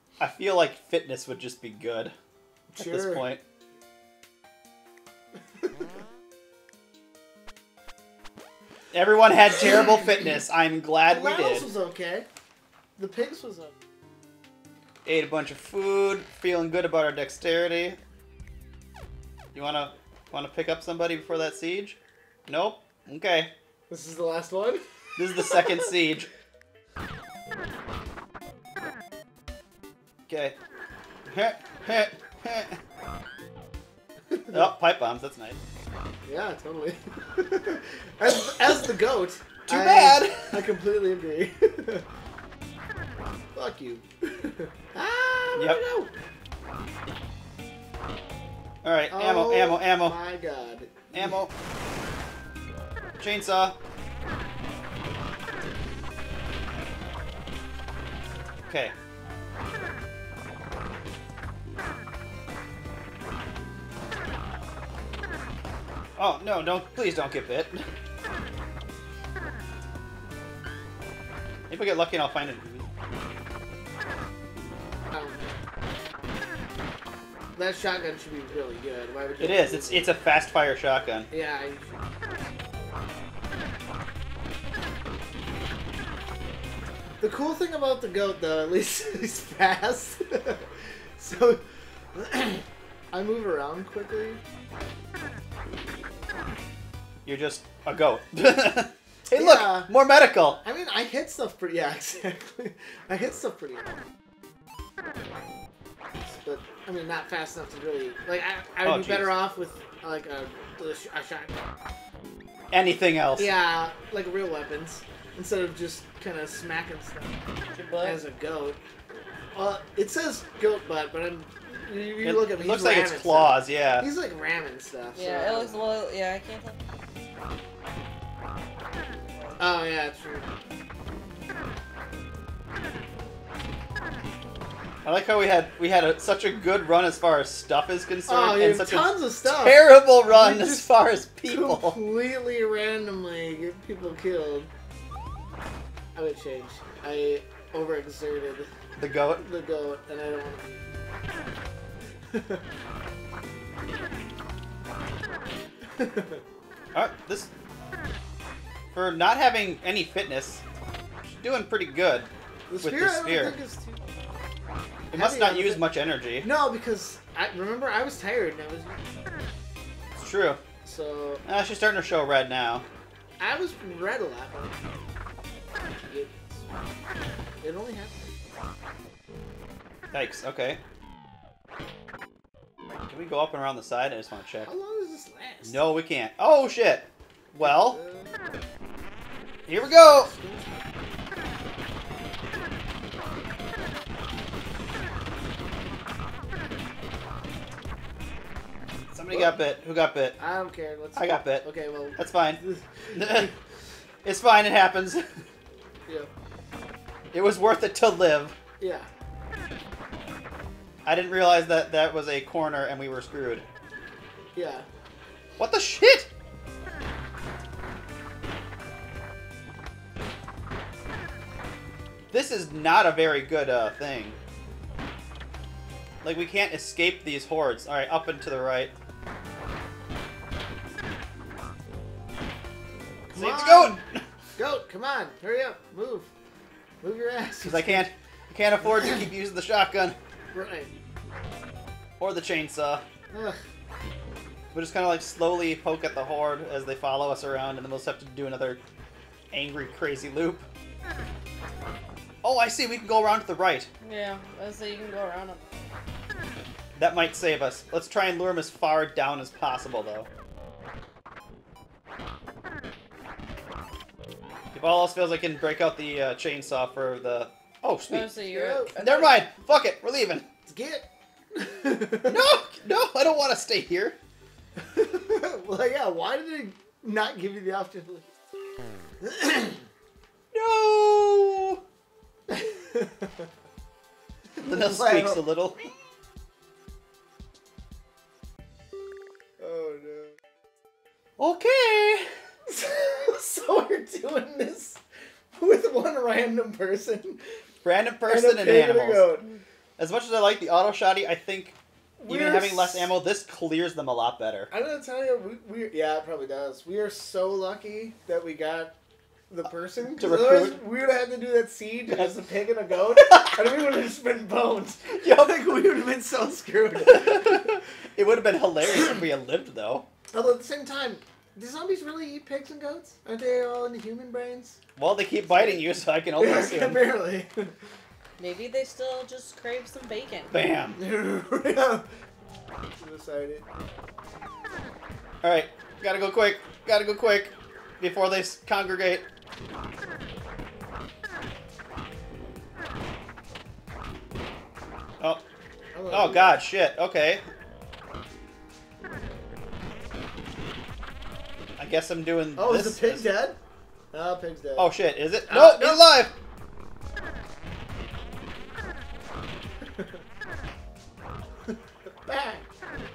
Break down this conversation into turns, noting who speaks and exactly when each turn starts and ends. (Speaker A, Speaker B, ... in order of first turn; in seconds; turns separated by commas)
Speaker A: 0.2-2.1, Speaker B: 2.7-3.3, Speaker A: 2.8-3.4, Speaker A: 8.9-11.7, Speaker B: 11.1-12.3, Speaker B: 13.0-13.7, Speaker A: 15.1-18.0, Speaker A: 19.5-23.5, Speaker B: 23.9-25.9, Speaker A: 25.2-26.3, Speaker A: 30.3-30.6, Speaker A: 31.3-32.8, Speaker B: 34.3-34.7, Speaker A: 34.5-35.6, Speaker B: 36.2-42.1, Speaker A: 39.7-40.6, Speaker B: 43.5-46.1, Speaker A: 45.6-45.8, Speaker A: 48.8-50.2, Speaker B: 49.1-51.0, Speaker A: 51.1-51.5, Speaker A: 53.2-53.8, Speaker A: 58.7-59.0, Speaker A: 66.2-67.8, Speaker A: 71.7-72.9, Speaker B: 75.1-75.4, Speaker B: 77.5-80.2, Speaker A: 79.4-81.3, Speaker B: 81.3-82.0, Speaker B: 87.2-94.4, Speaker A: 97.2-100.6, Speaker B: 99.3-99.9, Speaker B: 100.6-104.0, Speaker B: 106.4-111.6, Speaker A: 108.8-109.4, Speaker A: 112.7-113.5, Speaker B: 113.4-117.4, Speaker C: 117.8-118.2, Speaker B: 118.0-118.8, Speaker B: 119.5-125.8, Speaker A: 122.2-124.1, Speaker C: 125.2-126.8, Speaker B: 129.6-130.5, Speaker A: 135.0-142.0, Speaker B: 138.3-140.9, Speaker B: 141.5-144.7, Speaker B: 146.1-148.7, Speaker A: 149.0-149.4, Speaker B: 149.3-150.9, Speaker B: 152.3-152.6, Speaker B: 156.0-156.4, Speaker A: 156.9-157.5, Speaker A: 158.9-160.6, Speaker A: 161.2-162.3, Speaker B: 162.7-164.0, Speaker A: 162.8-163.6, Speaker A: 165.1-166.5, Speaker B: 165.1-165.8, Speaker B: 166.4-169.2, Speaker A: 170.2-170.6, Speaker B: 170.8-171.4, Speaker A: 171.4-172.9, Speaker B: 173.4-174.8, Speaker B: 176.1-176.6, Speaker B: 177.6-178.3, Speaker A: 180.1-180.8, Speaker A: 183.1-184.7, Speaker B: 184.6-185.8, Speaker A: 185.7-188.0, Speaker B: 187.6-188.4, Speaker A: 189.7-190.3, Speaker B: 189.7-190.9, Speaker A: 199.1-200.4, Speaker B: 199.3-199.6, Speaker B: 200.4-203.6, Speaker A: 201.2-202.6, Speaker A: 203.1-203.5, Speaker A: 204.2-205.2, Speaker A: 207.3-208.6, Speaker B: 208.8-209.1, Speaker A: 211.1-213.7, Speaker B: 214.6-214.9, Speaker A: 215.6-216.3, Speaker A: 222.3-224.4, Speaker A: 226.2-228.9, Speaker B: 233.3-234.0, Speaker A: 233.3-234.2, Speaker B: 234.6-236.3, Speaker B: 237.0-238.1, Speaker A: 237.6-240.2, Speaker B: 240.5-240.9, Speaker A: 242.2-243.0, Speaker B: 243.3-243.6, Speaker A: 244.7-248.8, Speaker A: 249.5-250.7, Speaker A: 252.4-253.9, Speaker C: 254.0-255.7, Speaker A: 257.0-260.3, Speaker A: 264.7-268.4, Speaker C: 268.1-269.4, Speaker B: 268.5-269.3, Speaker A: 269.0-270.5, Speaker B: 270.7-272.4, Speaker A: 272.3-274.2, Speaker B: 274.9-278.3, Speaker B: 279.2-279.8, Speaker A: 280.5-281.8, Speaker B: 282.5-283.5, Speaker B: 284.6-285.4, Speaker A: 284.6-285.8, Speaker B: 289.6-290.4, Speaker A: 291.4-292.3, Speaker B: 292.7-295.0, Speaker B: 295.5-297.4, Speaker A: 297.8-299.4, Speaker B: 298.3-299.6, Speaker A: 300.0-301.8, Speaker B: 302.2-303.1, Speaker A: 302.3-304.7, Speaker B: 304.7-308.9, Speaker B: 309.5-317.8, Speaker A: 310.2-310.8, Speaker A: 313.2-313.6, Speaker A: 315.1-315.7, Speaker A: 317.0-320.1, Speaker B: 320.3-324.8, Speaker A: 325.0-327.1, Speaker B: 325.4-325.9, Speaker B: 326.4-327.8, Speaker C: 328.4-330.5, Speaker A: 330.5-331.0, Speaker B: 331.0-332.1, Speaker B: 333.0-333.6, Speaker A: 335.4-339.2, Speaker B: 345.9-346.6, Speaker A: 346.1-347.4, Speaker A: 351.8-353.3, Speaker B: 352.6-353.6, Speaker B: 354.1-354.9, Speaker A: 354.8-356.3, Speaker B: 355.5-356.1, Speaker B: 362.2-362.7